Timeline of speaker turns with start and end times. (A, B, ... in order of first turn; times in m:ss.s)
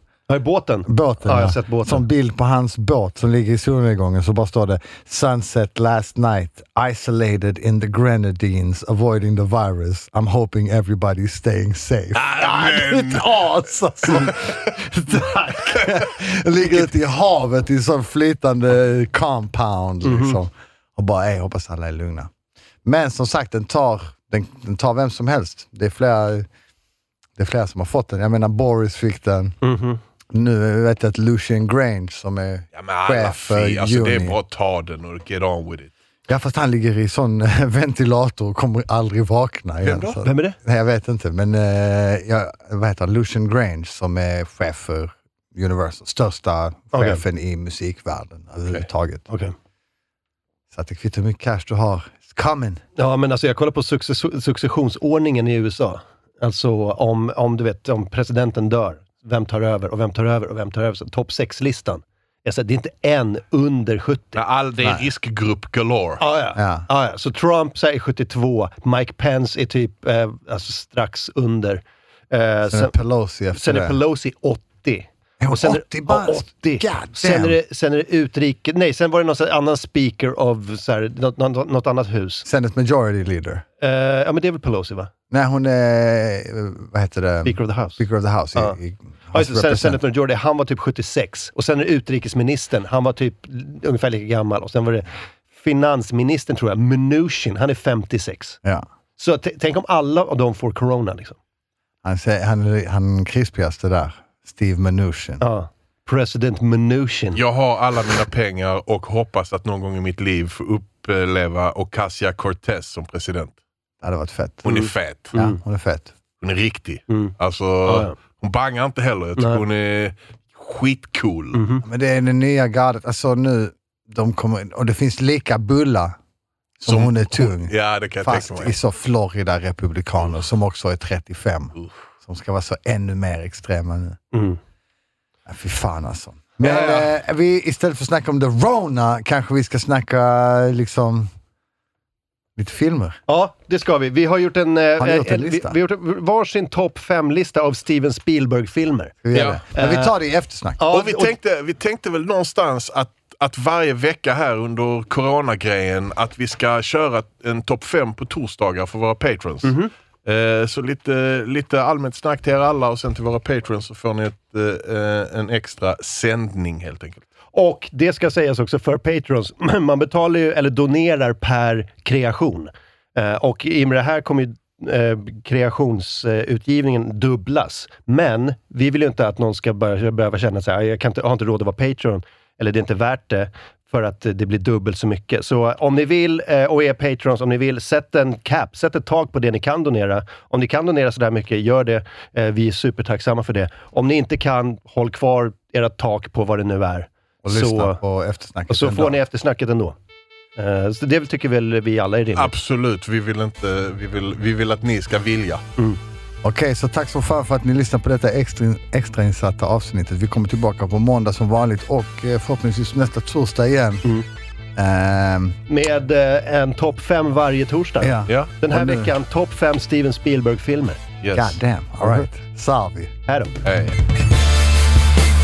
0:00.3-0:02.0 A
0:00.9-0:22.3 B
0:12.1-0:13.4 C
0:14.0-0:14.8 C
0:15.6-0:16.1 C
0:20.0-0:20.4 A
0:22.8-0:26.5 B
0:27.4-0:29.6 B
0:29.6-0:30.0 A
0:30.3-0:34.4 B
0:32.7-0:35.9 C
0:36.3-0:49.2 B
0:39.8-0:40.2 C
0:40.2-0:40.6 A
0:46.9-0:47.2 A
0:49.3-0:49.5 A
0:50.7-0:52.8 B
0:53.0-1:04.4 A
1:04.4-1:06.2 C
1:04.8-1:05.1 B
1:06.2-1:12.9 A
1:06.6-1:06.9 B
1:12.7-1:14.0 B
1:13.5-1:22.4 A
1:15.4-1:17.6 B
1:22.4-1:23.6 B
1:23.8-1:25.1 A
1:25.3-1:30.0 B
1:27.4-1:28.0 A
1:29.3-1:38.6 A
1:39.2-1:41.4 A
1:42.0-1:45.4 B
1:45.4-1:47.4 A
1:47.3-1:53.6 C
1:54.0-1:56.1 B
1:54.6-1:55.3 C
1:54.7-1:55.6 A
1:56.4-2:01.6 C
1:57.8-1:58.2 A
1:59.4-1:59.6 A
2:01.5-2:01.8 A
2:01.8-2:06.2 B
2:06.8-2:14.2 B
2:06.9-2:08.7 C
2:14.3-2:14.6 A
2:15.5-2:21.3 B
2:16.6-2:17.1 C
2:22.6-2:23.2 B
2:23.3-2:30.1 A
2:25.0-2:25.8 B
2:29.2-2:30.8 B
2:29.3-2:29.6 C
2:30.8-2:31.3 A
2:30.9-2:39.7 C
2:39.6-2:39.9 A
2:40.2-2:47.2 C
2:47.5-3:18.0 A
3:17.4-3:19.2 B
3:18.7-3:20.0 A
3:20.6-3:22.5 A
3:22.4-3:25.6 C
3:26.4-3:34.0 B
3:34.8-3:35.6 B
3:35.7-3:41.0 A
3:38.0-3:39.1 B
3:38.3-3:38.6 C
3:41.2-3:41.6 C
3:41.3-3:43.2 B
3:43.3-3:43.6 A
3:43.6-3:44.0 C